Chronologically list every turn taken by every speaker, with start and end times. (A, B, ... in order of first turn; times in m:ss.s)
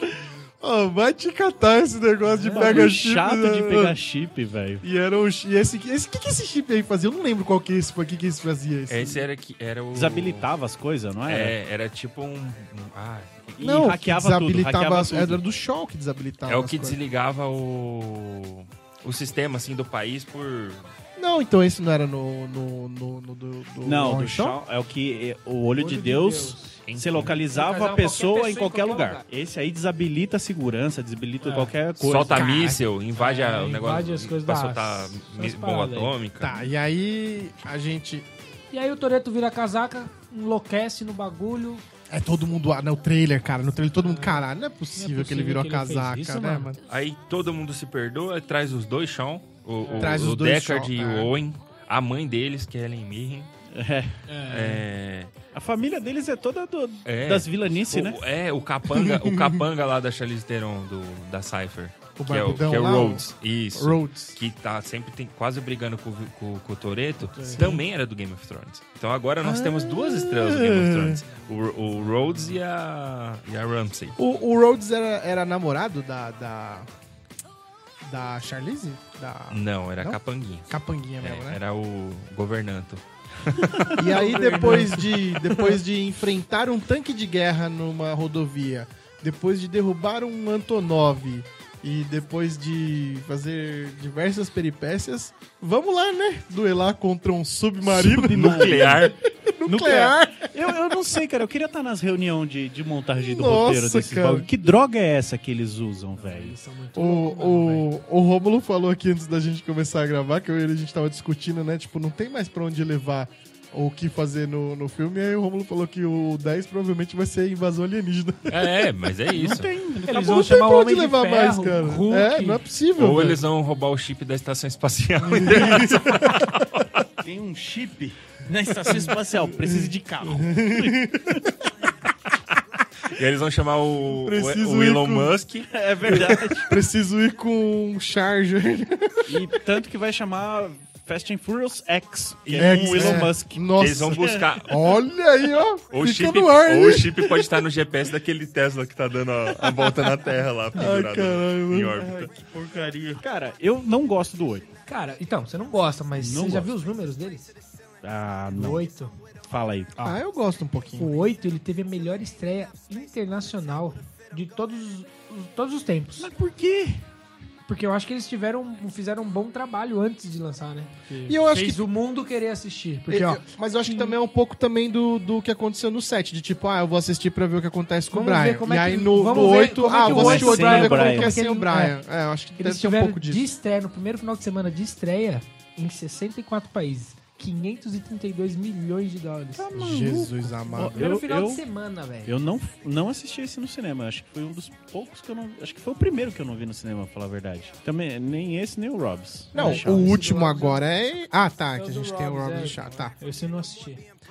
0:00.6-0:04.0 A
0:02.2-0:02.9 B
0:02.5-0:04.8 C
0:04.8-0:09.2 A
0:08.9-0:10.5 D
0:09.9-0:11.6 C
0:11.3-0:13.6 D
0:13.6-0:15.4 C
0:13.6-0:17.0 A
0:16.5-0:20.9 D
0:21.2-0:24.6 A
0:23.8-0:32.6 C
0:25.7-0:26.8 B
0:26.9-0:27.3 D
0:27.4-0:29.2 B
0:31.4-0:31.7 B
0:32.0-0:36.7 D
0:32.3-0:32.8 A
0:33.2-0:36.2 B
0:36.4-0:38.3 A
0:38.7-0:41.8 B
0:42.1-0:46.8 A
0:44.0-0:46.7 B
0:46.9-0:53.5 D
0:49.8-0:50.2 B
0:50.0-0:51.3 A
0:53.7-0:54.2 C
0:54.3-0:54.9 B
0:54.5-0:55.3 D
0:55.5-0:58.2 C
0:57.0-1:14.2 D
0:58.9-0:59.6 A
1:02.2-1:04.4 A
1:07.4-1:07.8 A
1:09.4-1:11.2 A
1:11.3-1:12.5 B
1:14.2-1:16.9 A
1:18.0-1:20.2 A
1:19.5-1:24.2 D
1:20.7-1:21.6 A
1:24.0-1:41.0 A
1:24.1-1:25.1 B
1:37.8-1:39.2 D
1:38.1-1:39.1 C
1:39.7-1:46.6 C
1:43.2-1:44.5 A
1:46.2-1:47.9 B
1:47.0-1:58.7 A
1:58.5-1:59.7 D
1:59.3-2:00.5 C
2:00.1-2:02.6 B
2:00.3-2:03.4 A
2:03.0-2:07.0 D
2:05.2-2:06.5 A
2:07.2-2:11.0 C
2:08.9-2:11.5 A
2:13.1-2:16.3 D
2:14.2-2:15.3 A
2:15.7-2:16.8 C
2:16.1-2:19.6 A
2:19.3-2:23.6 C
2:22.5-2:25.0 D
2:22.6-2:27.6 A
2:25.9-2:32.5 D
2:30.7-2:32.3 A
2:32.2-2:34.7 C
2:34.9-2:37.5 B
2:36.2-2:36.7 C
2:38.0-2:38.8 C
2:38.5-2:39.1 B
2:39.5-2:40.1 C
2:40.0-2:41.1 A
2:41.0-2:46.3 B
2:46.2-2:47.0 C
2:47.7-2:54.2 B
2:51.3-2:51.8 A
2:53.1-3:03.5 A
2:58.1-3:02.0 B
3:00.0-3:01.4 C
3:02.6-3:09.7 B
3:09.6-3:11.6 C
3:09.7-3:11.0 A
3:10.5-3:12.4 B
3:12.3-3:20.2 C
3:19.5-3:20.8 B
3:19.5-3:23.1 A
3:21.8-3:24.0 B